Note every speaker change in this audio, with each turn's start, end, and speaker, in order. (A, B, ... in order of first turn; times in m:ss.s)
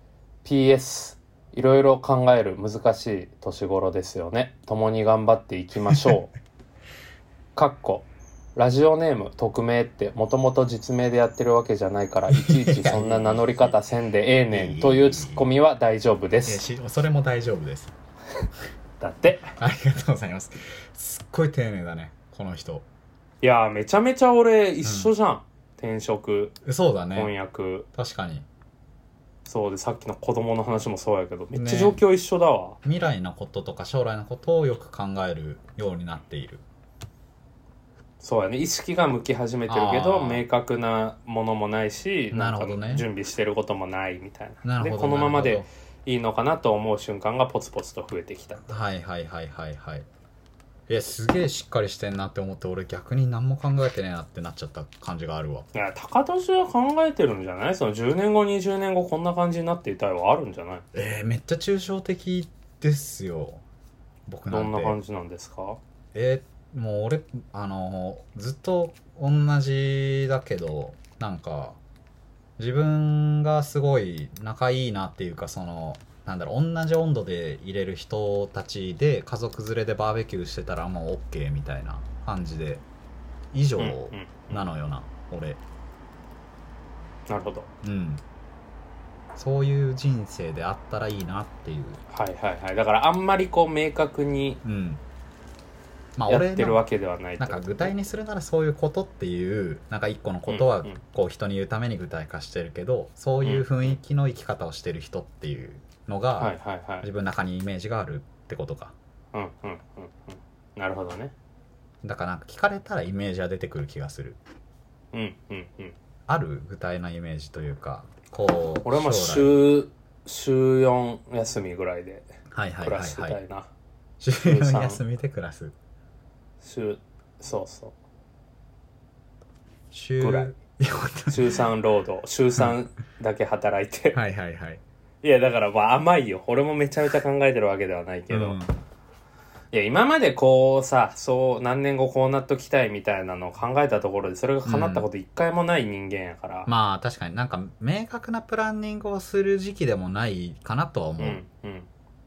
0:00.4-0:06.3 A
0:07.6-0:16.6 A
0:12.3-0:13.8 B
0:14.5-0:15.4 B
0:16.4-0:17.9 B
0:19.0-0:19.5 A
0:19.6-0:22.8 B
0:23.4-0:26.6 A
0:24.8-0:25.1 B
0:26.6-0:27.3 B
0:27.1-0:27.9 A
0:27.9-0:28.4 B
0:29.4-0:32.8 A
0:31.5-0:32.0 B
0:32.8-0:36.6 B
0:38.2-0:48.7 A
0:39.7-0:40.4 B
0:42.3-0:43.1 B
0:44.6-0:45.7 B
0:48.7-0:50.0 B
0:50.9-0:55.7 B
0:55.7-1:00.8 A
1:00.9-1:03.6 B
1:04.2-1:05.0 B
1:04.5-1:05.8 A
1:06.1-1:11.8 B
1:12.6-1:22.8 B
1:23.5-1:25.6 B
1:23.8-1:24.6 A
1:27.3-1:27.7 A
1:27.8-1:28.2 B
1:29.3-1:32.0 B
1:32.1-1:34.6 A
1:34.6-1:35.0 B
1:36.2-1:36.8 B
1:36.3-1:37.9 A
1:37.4-1:48.9 B
1:40.5-1:41.0 A
1:43.4-1:44.0 A
1:46.4-1:47.1 A
1:49.3-1:51.3 A
1:52.0-1:54.4 B
1:55.1-1:55.9 A
1:56.3-1:59.6 B
1:58.8-2:03.7 A
2:02.5-2:03.4 B
2:04.2-2:05.7 B
2:04.4-2:05.0 A
2:06.6-2:07.9 A
2:09.9-2:11.6 B
2:10.2-2:10.6 A
2:11.3-2:14.2 A
2:14.1-2:14.8 B
2:15.2-2:18.6 A
2:18.3-2:18.8 B
2:19.7-2:26.7 A
2:24.6-2:25.1 B
2:26.7-2:31.4 B
2:31.2-2:31.9 A